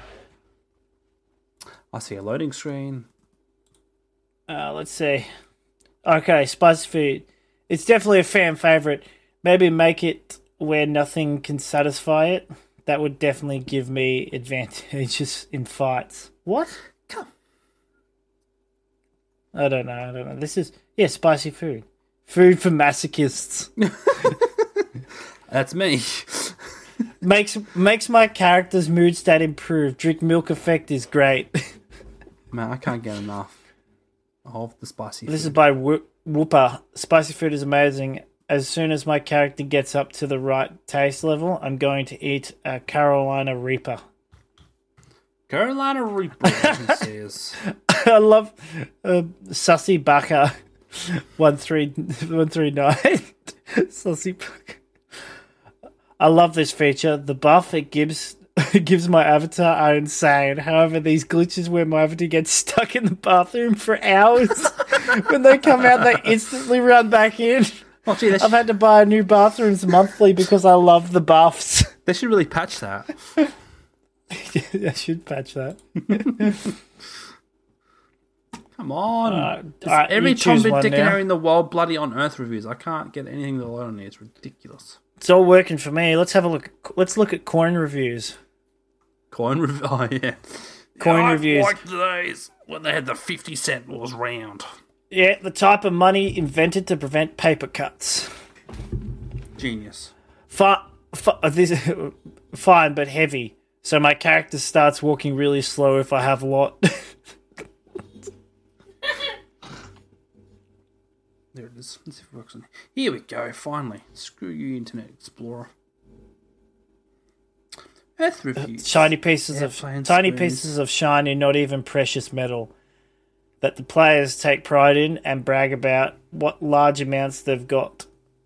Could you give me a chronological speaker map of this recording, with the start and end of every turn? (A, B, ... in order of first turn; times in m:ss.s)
0:01.9-0:03.1 A
0:04.5-0:05.3 B
0:06.0-0:16.8 B
0:19.5-0:23.7 B
0:23.8-0:24.5 A
0:25.5-0:26.6 A
0:27.2-0:31.6 B
0:32.5-0:33.6 A
0:34.4-0:35.6 A
0:35.3-0:44.0 B
0:45.5-0:47.6 A
0:46.6-0:46.9 B
0:47.9-0:54.8 B
0:56.2-1:07.8 B
1:08.0-1:08.6 A
1:08.4-1:11.9 B
1:12.0-1:13.1 A
1:14.3-1:16.7 B
1:18.8-1:25.0 A
1:19.3-1:21.2 B
1:25.2-1:28.4 B
1:29.3-1:34.7 A
1:31.0-1:31.8 B
1:35.1-1:38.3 B
1:39.6-1:40.1 A
1:40.5-1:47.1 B
1:51.5-1:55.7 A
1:58.2-2:00.7 A
1:58.8-2:02.7 B
2:03.6-2:08.1 B